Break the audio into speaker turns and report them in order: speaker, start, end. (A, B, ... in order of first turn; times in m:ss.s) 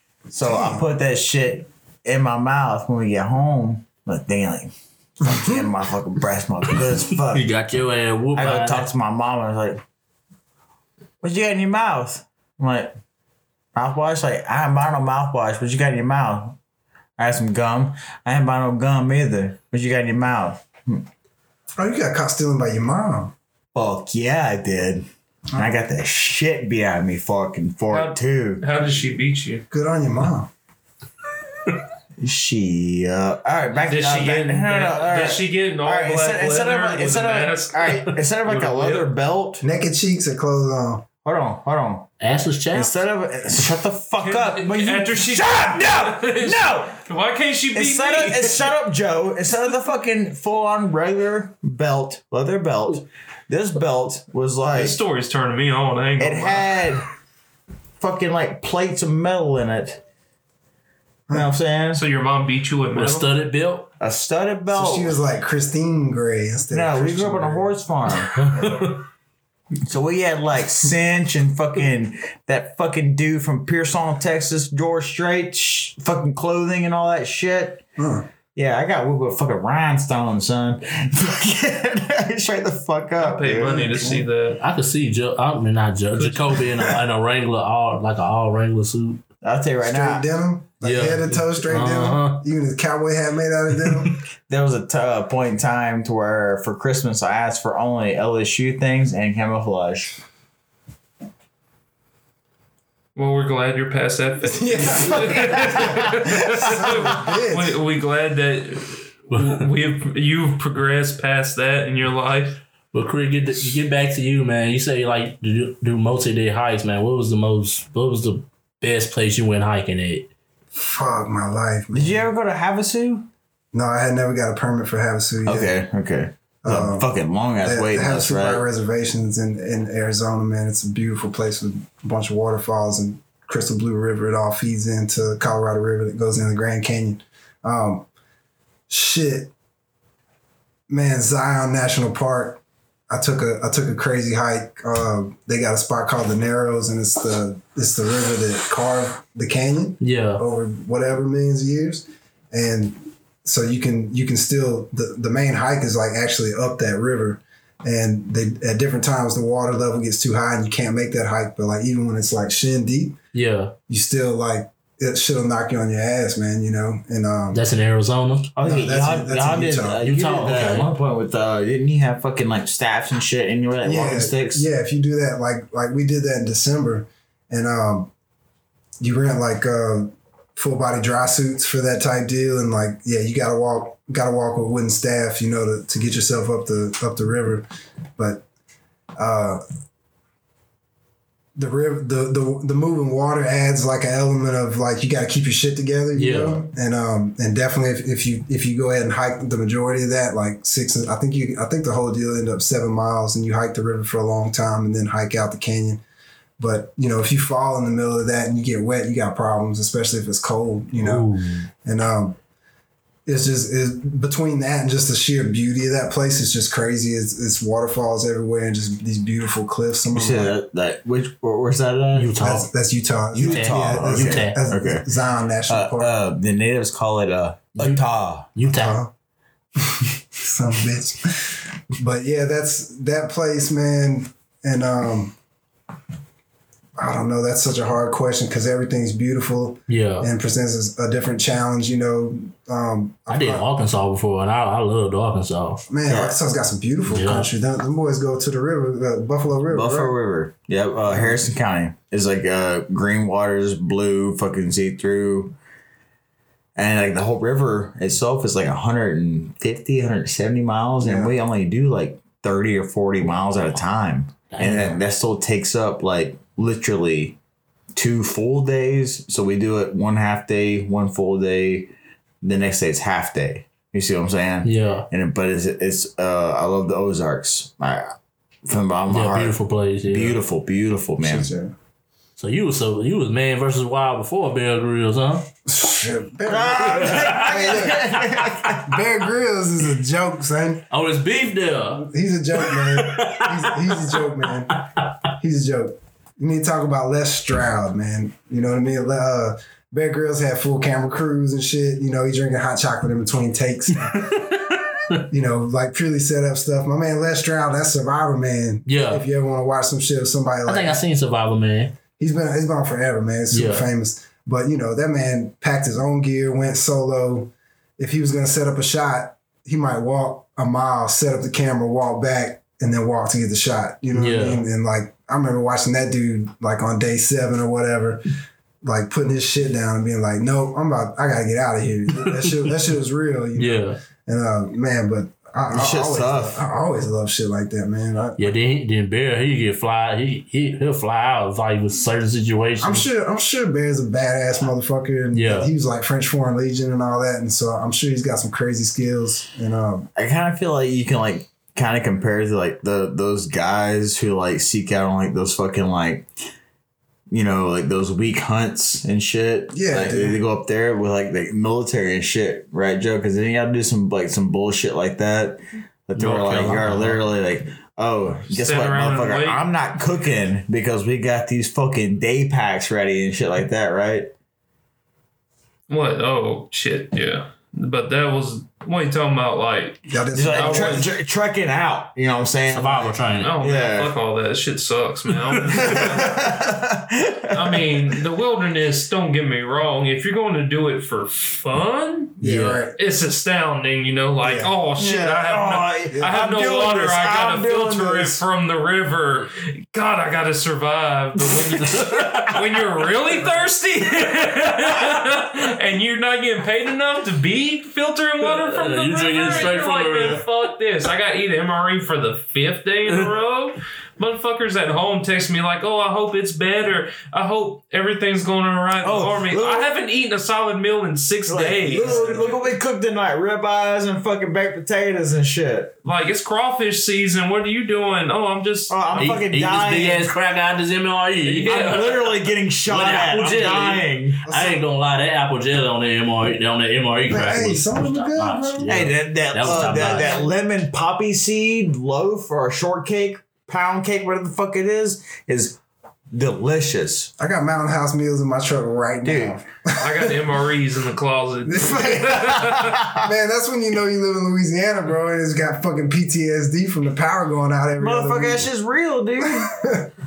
0:00.3-0:07.4 A
0:00.4-0:00.8 B
0:06.9-0:08.9 C
0:08.3-0:09.8 A
0:11.2-0:13.0 A
0:13.7-0:16.6 A
0:17.2-0:21.0 A
0:21.8-0:23.3 B
0:23.7-0:28.6 A
0:27.9-0:29.6 D
0:29.7-0:30.5 B
0:32.2-0:39.6 A
0:33.7-0:39.0 D
0:39.6-0:41.0 B
0:41.2-0:42.1 A
0:42.2-0:43.0 C
0:42.7-0:47.0 A
0:44.2-0:48.7 D
0:47.7-0:55.0 A
0:54.7-0:56.8 D
0:56.2-0:57.0 A
0:58.0-1:00.0 A
1:01.3-1:02.0 A
1:02.0-1:03.3 D
1:03.0-1:03.9 C
1:04.0-1:05.2 A
1:04.7-1:07.7 B
1:06.7-1:08.4 A
1:08.5-1:08.9 C
1:09.9-1:17.8 A
1:18.0-1:18.3 B
1:18.5-1:23.8 A
1:23.2-1:24.6 D
1:23.6-1:29.2 C
1:24.0-1:24.2 B
1:26.1-1:26.9 D
1:29.4-1:30.2 A
1:29.8-1:34.2 B
1:30.8-1:32.4 C
1:34.5-1:40.1 A
1:43.1-1:52.6 D
1:44.4-1:46.0 B
1:44.8-1:46.9 A
1:46.6-1:47.8 B
1:49.3-1:49.6 C
1:52.9-2:00.3 C
2:00.7-2:02.3 B
2:01.9-2:03.3 A
2:03.7-2:05.7 B
2:05.4-2:08.6 A
2:06.6-2:07.1 B
2:07.6-2:18.1 B
2:18.9-2:19.5 B
2:20.9-2:43.2 B
2:30.0-2:30.4 C
2:43.3-2:43.7 C
2:43.9-2:47.6 B
2:47.5-2:48.5 C
2:48.5-2:54.7 A
2:48.6-2:50.0 B
2:50.0-2:50.9 C
2:53.8-2:58.1 B
2:59.0-3:07.6 B
3:08.2-3:08.4 B
3:09.2-3:09.6 B
3:11.6-3:26.0 B
3:16.2-3:16.6 C
3:26.6-3:31.3 B
3:31.0-3:31.7 C
3:31.8-3:32.4 B
3:33.2-3:40.5 B
3:40.1-3:42.4 A
3:42.1-3:42.7 C
3:42.4-3:46.1 B
3:43.3-3:45.1 A
3:43.4-3:44.6 C
3:45.7-3:48.5 A
3:47.8-3:48.0 C
3:48.5-3:49.0 C
3:48.6-3:49.1 B
3:49.8-3:55.4 B
3:57.0-4:03.7 B
3:59.9-4:00.3 C
4:03.3-4:05.8 C
4:05.9-4:10.1 B
4:06.0-4:06.4 A
4:07.1-4:07.5 C
4:09.7-4:15.5 A
4:11.1-4:11.4 B
4:16.7-4:27.4 A
4:21.0-4:21.3 B
4:24.5-4:25.0 C
4:27.9-4:38.1 A
4:34.6-4:35.1 C
4:38.6-4:41.5 A
4:39.1-4:40.4 C
4:41.2-4:41.7 B
4:42.4-4:45.5 C
4:45.7-4:48.2 B
4:46.4-4:48.8 A
4:46.8-4:48.8 C
4:48.8-4:50.9 B
4:50.9-4:52.0 C
4:51.9-5:04.5 B
4:52.6-4:54.2 C
5:04.3-5:04.6 C
5:05.2-5:11.0 B
5:08.9-5:09.2 C
5:10.6-5:12.0 C
5:12.2-5:28.2 B
5:13.5-5:13.8 C
5:24.1-5:24.6 C
5:28.8-5:38.5 B
5:33.6-5:34.0 C
5:35.7-5:36.6 A
5:38.4-5:43.0 C
5:42.8-5:50.1 B
5:45.3-5:45.7 C
5:50.1-5:56.3 A
5:57.3-6:14.3 A
5:59.7-6:00.4 B
6:06.1-6:07.3 C
6:08.5-6:09.6 D
6:15.9-6:21.1 D
6:20.1-6:21.0 B
6:20.3-6:24.1 A
6:22.7-6:23.5 C
6:23.4-6:26.6 D
6:25.5-6:26.0 C
6:25.7-6:27.9 A
6:27.5-6:32.4 D
6:32.4-6:33.0 B
6:32.4-6:32.9 C
6:32.9-7:02.6 D
6:34.4-6:34.7 B
6:35.0-6:38.4 A
6:36.1-6:36.4 B
6:41.8-6:42.5 A
6:41.9-6:42.6 C
6:48.4-6:50.4 C
6:59.0-6:59.9 A
7:01.5-7:05.9 A
7:02.0-7:02.4 C
7:06.0-7:09.0 D
7:08.9-7:10.3 A
7:09.1-7:20.5 C
7:11.4-7:12.1 D
7:11.7-7:14.4 A
7:14.4-7:14.8 B
7:17.3-7:19.0 B
7:18.9-7:25.8 A
7:26.3-7:27.3 A
7:27.4-7:30.6 B
7:29.2-7:29.6 A
7:30.0-7:33.0 D
7:31.6-7:38.7 B
7:32.6-7:33.3 A
7:38.0-7:39.7 A
7:39.4-7:40.1 B